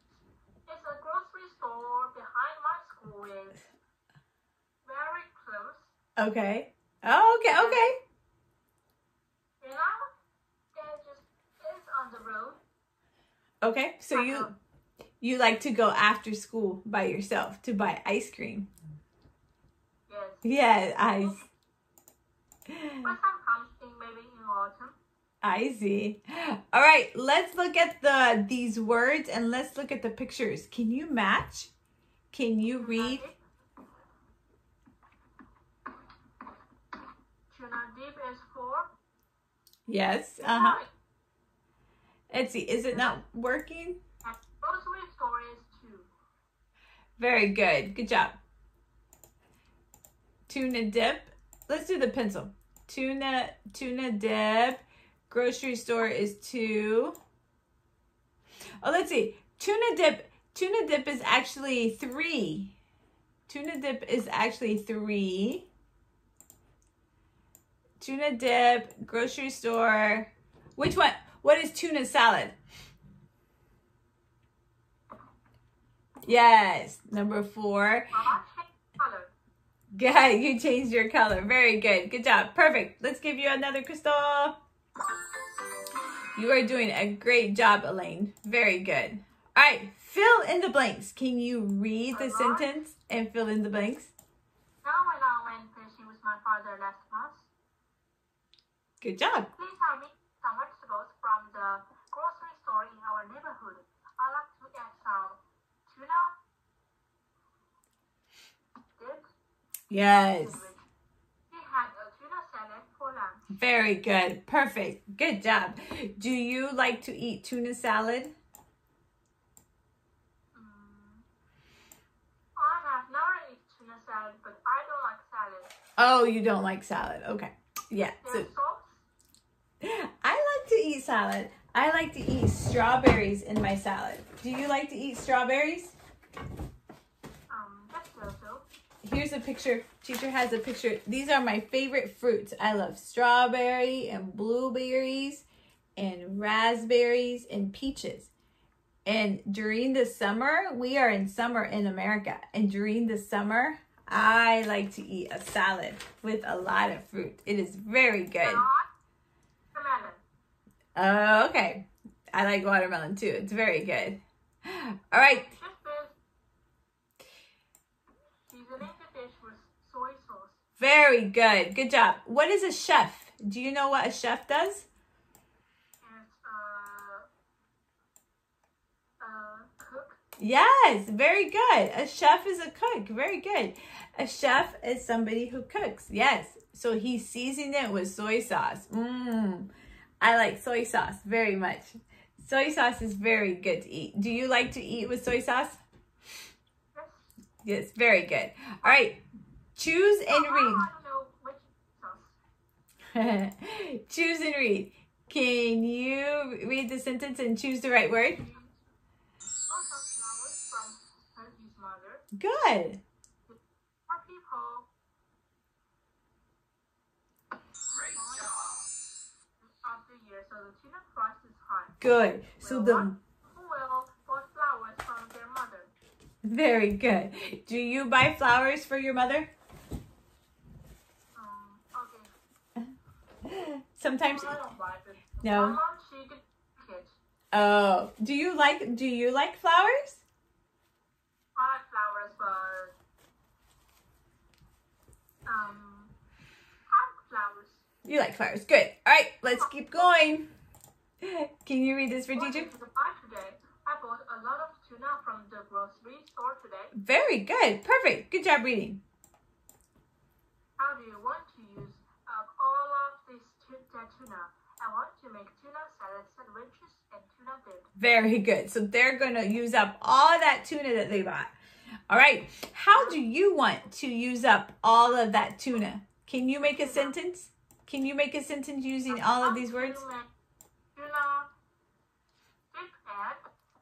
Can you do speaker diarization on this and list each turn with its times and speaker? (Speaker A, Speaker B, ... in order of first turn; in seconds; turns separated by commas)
Speaker A: 0.7-3.6, Speaker A: 4.8-5.9, Speaker B: 6.2-7.9, Speaker A: 7.5-7.8, Speaker A: 9.6-10.1, Speaker A: 10.7-12.6, Speaker B: 13.6-14.5, Speaker A: 14.1-14.5, Speaker B: 15.2-18.7, Speaker A: 20.1-21.5, Speaker B: 20.4-21.4, Speaker B: 22.7-23.1, Speaker A: 23.0-25.0, Speaker B: 25.4-31.7, Speaker B: 32.3-33.2, Speaker A: 32.8-33.4, Speaker A: 37.5-38.9, Speaker B: 39.9-40.8, Speaker A: 40.4-40.9, Speaker B: 42.3-44.0, Speaker A: 42.9-43.2, Speaker A: 44.2-46.1, Speaker B: 47.2-48.4, Speaker B: 50.5-57.2, Speaker B: 58.8-62.7, Speaker B: 63.5-65.7, Speaker B: 68.0-72.5, Speaker B: 76.2-78.3, Speaker A: 78.1-79.3, Speaker B: 79.9-84.6, Speaker B: 86.3-94.1, Speaker A: 92.1-92.8, Speaker A: 94.8-97.5, Speaker B: 99.0-99.5, Speaker A: 99.5-106.4, Speaker A: 109.0-109.2, Speaker B: 109.9-110.6, Speaker A: 110.0-110.8, Speaker A: 111.5-113.5, Speaker B: 113.5-118.3, Speaker A: 120.5-121.2, Speaker A: 122.5-125.7, Speaker B: 126.0-128.5, Speaker A: 128.2-129.1, Speaker B: 129.8-135.9, Speaker A: 137.5-138.7, Speaker B: 139.0-145.4, Speaker B: 145.9-148.3, Speaker B: 149.0-158.6, Speaker A: 158.4-158.9, Speaker A: 159.7-160.2, Speaker B: 160.9-165.5, Speaker A: 165.3-166.2, Speaker A: 168.5-170.6, Speaker B: 170.8-174.8, Speaker A: 176.0-177.3, Speaker A: 179.2-180.2, Speaker B: 180.4-189.7, Speaker B: 190.2-195.8, Speaker A: 196.9-197.3, Speaker B: 197.6-199.2, Speaker B: 199.8-200.8, Speaker A: 200.3-202.4, Speaker B: 203.1-208.4, Speaker A: 208.3-208.8, Speaker A: 209.7-212.2, Speaker B: 212.3-213.0, Speaker A: 213.5-214.9, Speaker A: 218.0-218.7, Speaker A: 219.6-222.0, Speaker B: 222.0-223.1, Speaker A: 222.6-225.9, Speaker B: 226.4-229.5, Speaker A: 231.3-232.3, Speaker B: 233.4-234.6, Speaker A: 234.3-237.2, Speaker B: 235.4-235.8, Speaker B: 237.5-240.2, Speaker A: 241.6-242.9, Speaker A: 245.4-246.1, Speaker A: 246.9-247.8, Speaker B: 248.0-250.5, Speaker B: 251.2-252.7, Speaker A: 252.3-256.9, Speaker B: 256.9-259.0, Speaker A: 260.8-267.9, Speaker B: 268.0-271.5, Speaker B: 272.1-280.0, Speaker A: 272.9-273.2, Speaker A: 276.8-277.1, Speaker A: 279.1-280.3, Speaker A: 280.9-281.5, Speaker A: 282.7-283.4